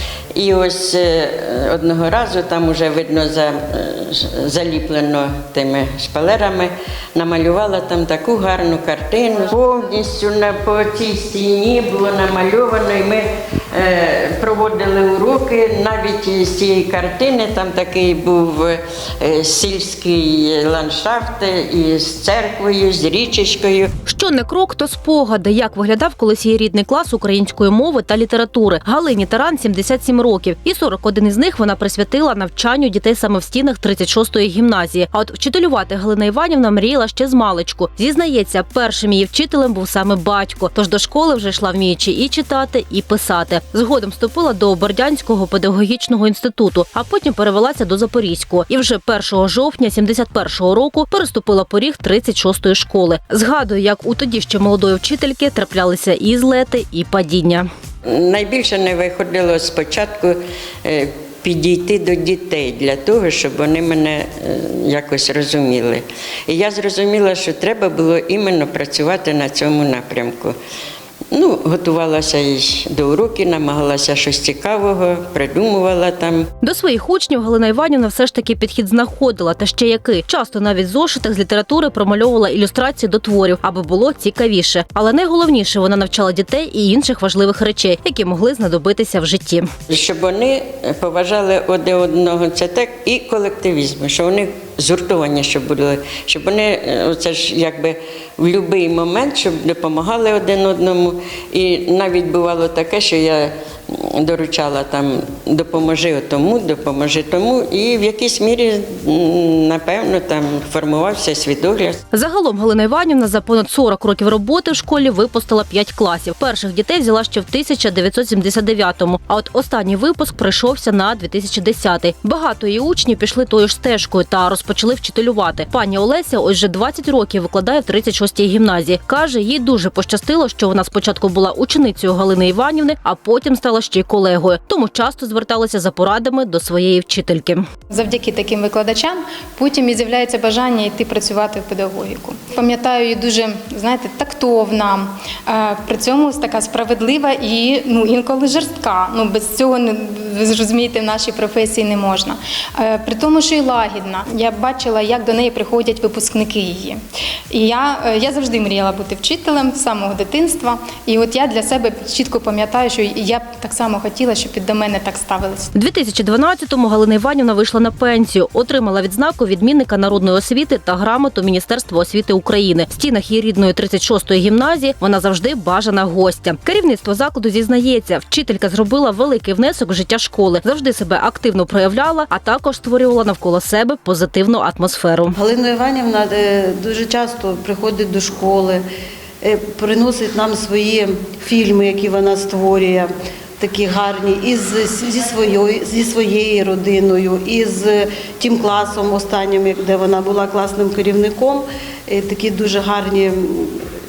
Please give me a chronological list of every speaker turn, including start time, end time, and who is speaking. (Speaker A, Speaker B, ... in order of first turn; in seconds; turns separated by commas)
Speaker A: 0.3-23.9, Speaker B: 24.1-57.7, Speaker A: 58.0-70.6, Speaker A: 71.3-76.5, Speaker B: 76.6-89.7, Speaker A: 89.9-112.0, Speaker B: 112.1-137.7, Speaker C: 137.9-165.7, Speaker B: 165.7-185.4, Speaker D: 185.3-188.8, Speaker D: 189.4-203.8